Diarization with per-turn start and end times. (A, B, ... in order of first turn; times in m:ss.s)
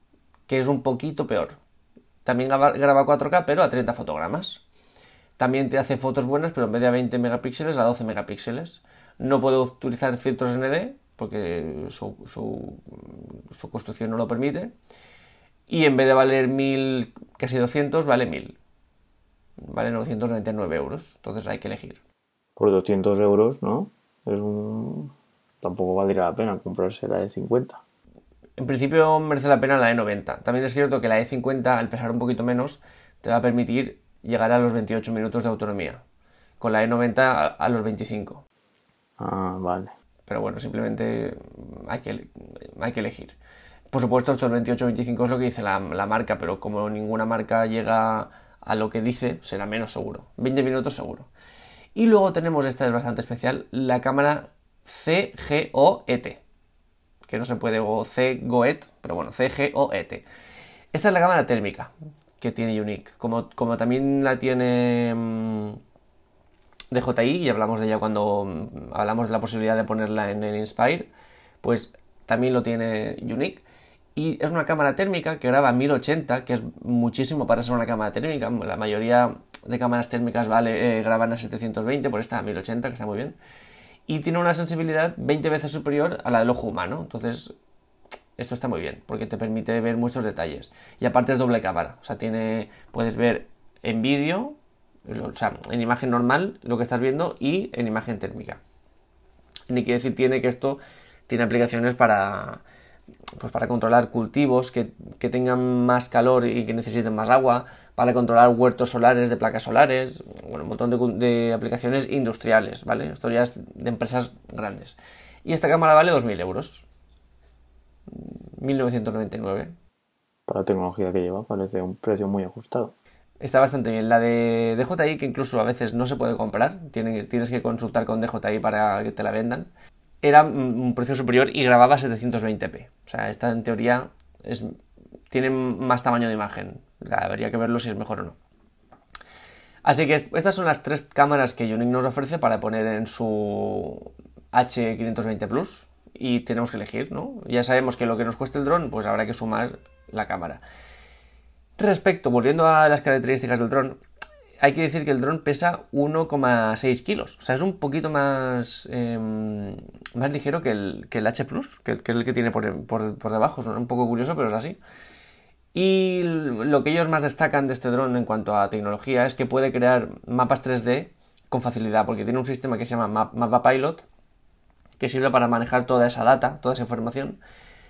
0:00.5-0:01.6 A
0:02.2-0:04.6 A
0:05.4-0:14.7 A
0:15.7-0:18.6 A
0:19.6-0:22.0 A
0:22.6-0:27.8 B
0:28.6-0:36.0 A
0:36.6-0:38.4 A
0:39.2-0:39.9 B
0:40.3-0:43.4 A
0:43.9-0:51.3 A
0:52.0-0:56.4 A
0:57.3-1:00.2 A
1:00.9-1:05.8 A
1:06.9-1:11.1 A
1:11.6-1:13.6 A
1:14.2-1:23.4 A
1:24.1-1:27.5 A
1:28.4-1:34.6 A
1:35.1-1:38.6 A
1:39.7-1:42.6 A
1:43.4-1:56.8 A
1:58.1-1:59.8 A
2:00.5-2:02.9 B
2:03.4-2:09.7 A
2:10.2-2:14.8 A
2:15.3-2:18.4 A
2:19.8-2:30.6 A
2:31.8-2:34.0 A
2:34.6-2:44.8 A
2:45.7-2:54.0 A
2:55.0-2:57.4 A